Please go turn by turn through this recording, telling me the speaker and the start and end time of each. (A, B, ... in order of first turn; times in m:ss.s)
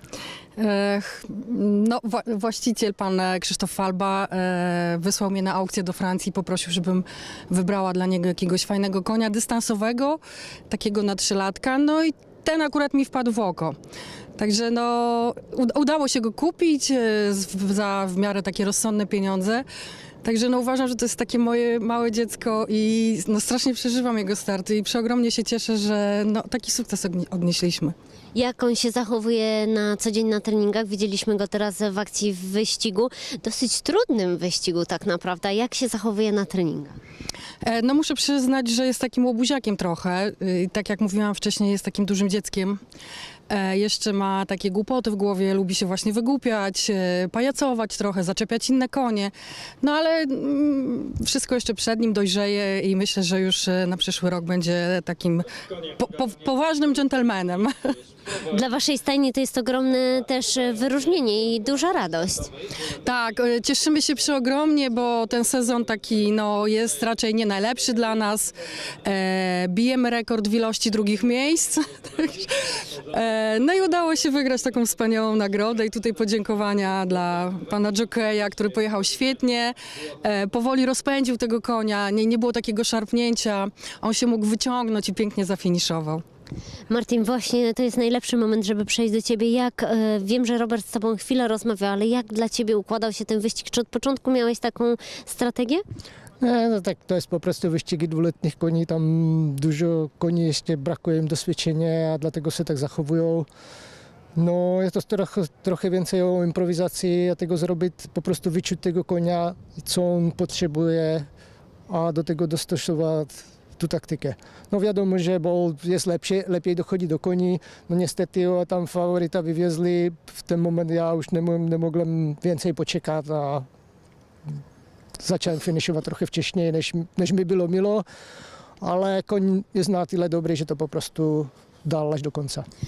0:00.6-0:10.2 A
0:10.7-0:13.8 A
0:14.4-0:19.6 A
0:20.2-0:27.9 A
0:28.3-0:37.0 B
0:37.6-0:42.8 A
0:43.5-0:58.0 A
0:58.4-1:02.5 B
1:03.0-1:26.2 A
1:26.9-1:35.8 B
1:36.4-1:43.5 C
1:44.4-1:51.3 C
1:51.9-2:03.6 C
2:05.2-2:08.0 C
2:08.8-2:12.6 C